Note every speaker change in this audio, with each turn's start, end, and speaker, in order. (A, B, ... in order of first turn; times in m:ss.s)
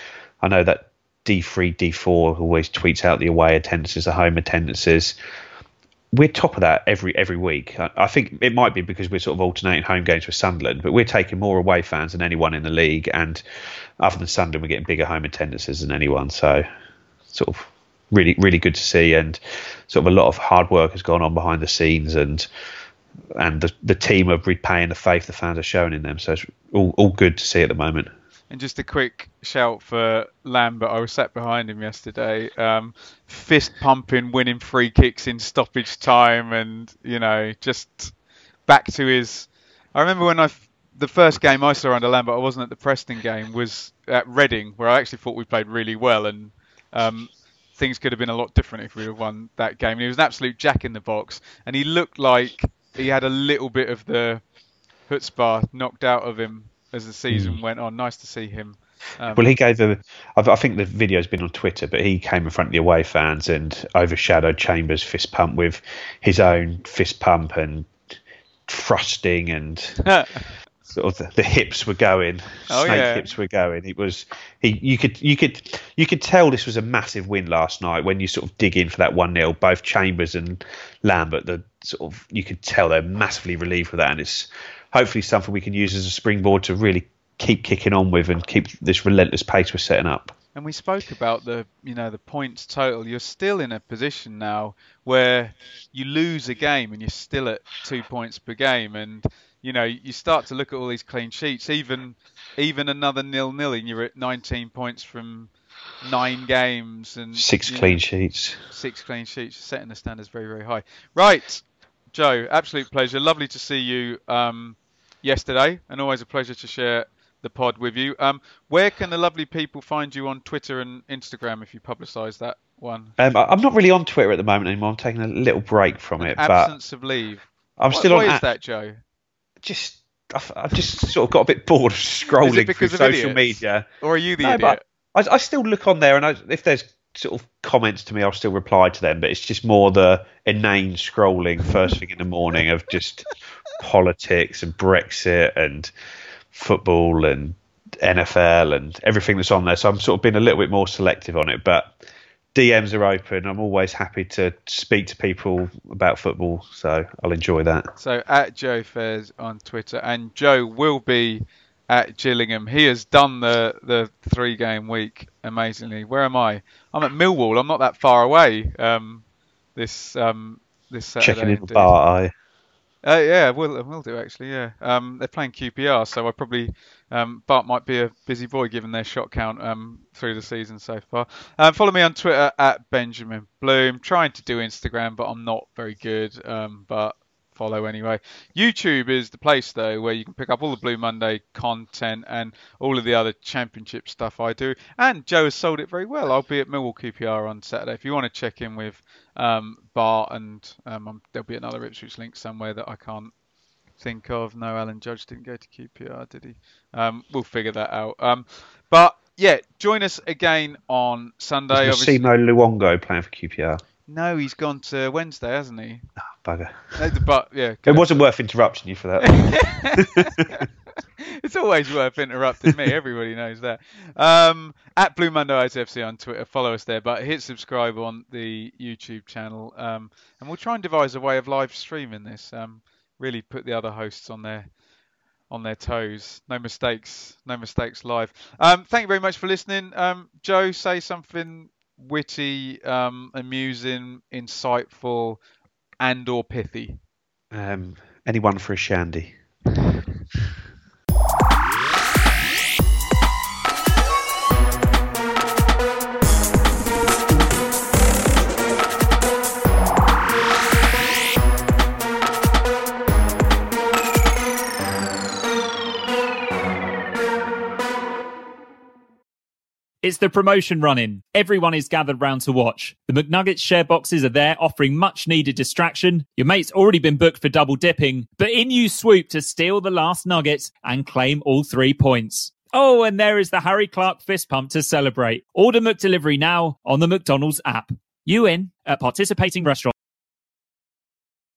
0:00.4-0:05.2 A
0:06.1-0:13.4 A
0:14.0-0:16.7 A
0:17.3-0:22.5 A
0:23.4-0:28.1 A
0:28.5-0:38.1 B
0:38.7-0:54.4 B
0:55.1-0:59.5 B
0:57.3-0:57.6 A
0:59.3-1:07.9 A
1:08.7-1:10.0 A
1:10.0-1:10.5 B
1:10.9-1:30.4 A
1:12.7-1:13.3 B
1:30.6-1:45.5 B
1:46.0-1:48.0 B
1:47.4-1:48.6 A
1:48.7-2:03.2 B
2:03.2-2:06.7 A
2:06.2-2:09.0 B
2:07.8-2:08.5 A
2:09.6-2:13.9 A
2:12.4-2:14.8 B
2:14.4-2:25.9 A
2:26.5-2:37.9 A
2:38.0-2:49.2 B
2:49.8-2:52.0 B
2:51.2-2:52.3 A
2:53.0-3:23.3 B
3:24.0-3:32.2 B
3:31.7-3:33.8 A
3:34.1-3:36.1 B
3:36.4-3:37.0 A
3:37.0-3:38.1 B
3:37.9-3:39.4 A
3:39.2-3:40.7 B
3:40.0-3:40.6 A
3:41.2-3:54.7 B
3:55.5-4:05.4 B
4:06.0-4:07.0 B
4:07.5-4:09.4 A
4:30.0-4:49.9 C